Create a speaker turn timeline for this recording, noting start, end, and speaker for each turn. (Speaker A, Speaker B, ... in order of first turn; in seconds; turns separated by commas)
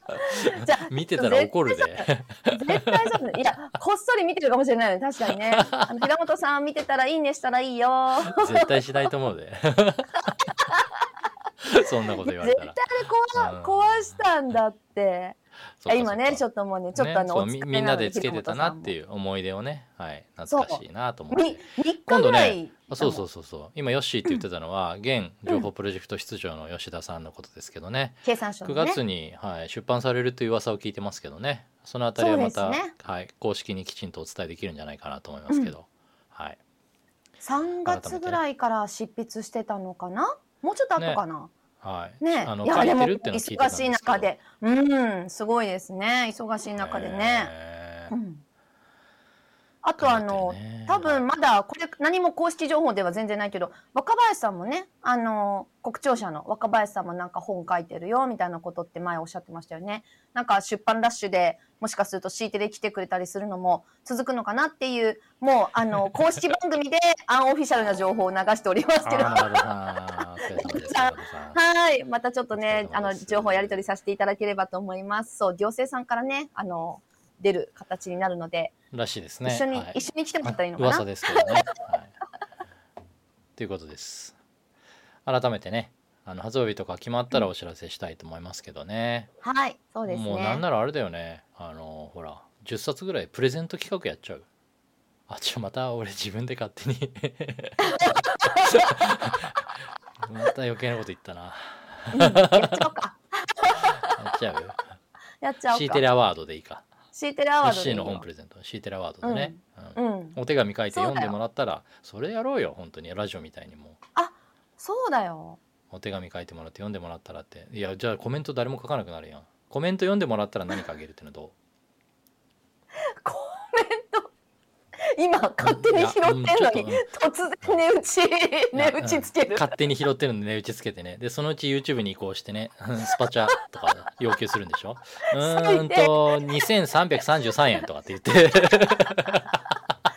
Speaker A: 0.2-8.9, Speaker B: 0.2-3.0, Speaker B: 5.5-5.9, Speaker B: 8.3-10.5, Speaker A: 10.6-11.0, Speaker B: 11.6-12.8, Speaker A: 12.2-18.9, Speaker B: 13.3-14.2, Speaker B: 15.8-16.4, Speaker B: 16.9-36.6, Speaker A: 20.5-23.2, Speaker A: 28.2-29.0, Speaker A: 32.2-32.9, Speaker A: 37.4-41.5, Speaker B: 37.8-38.4, Speaker B: 41.0-41.2, Speaker B: 41.8-44.3, Speaker A: 42.2-47.5, Speaker B: 46.8-48.1, Speaker A: 48.1-48.4, Speaker A: 49.8-69.6, Speaker B: 50.0-51.2, Speaker B: 69.0-71.6, Speaker A: 70.5-78.7, Speaker B: 72.5-73.9, Speaker B: 78.9-82.1, Speaker A: 79.4-81.6, Speaker B: 83.6-84.3, Speaker B: 85.2-89.3, Speaker A: 89.4-90.6, Speaker B: 90.1-94.5, Speaker B: 95.3-98.2, Speaker A: 97.8-99.0, Speaker B: 98.7-99.7, Speaker B: 100.2-102.8, Speaker A: 102.1-104.2, Speaker B: 103.8-104.8, Speaker A: 105.4-106.0, Speaker B: 105.7-106.9, Speaker A: 107.1-108.2, Speaker B: 107.6-114.0, Speaker A: 109.2-110.4, Speaker A: 110.9-111.3, Speaker A: 114.2-115.6, Speaker B: 115.9-121.5, Speaker A: 123.2-124.3, Speaker A: 125.1-129.7, Speaker B: 125.6-127.0, Speaker B: 128.7-139.6, Speaker A: 135.3-136.6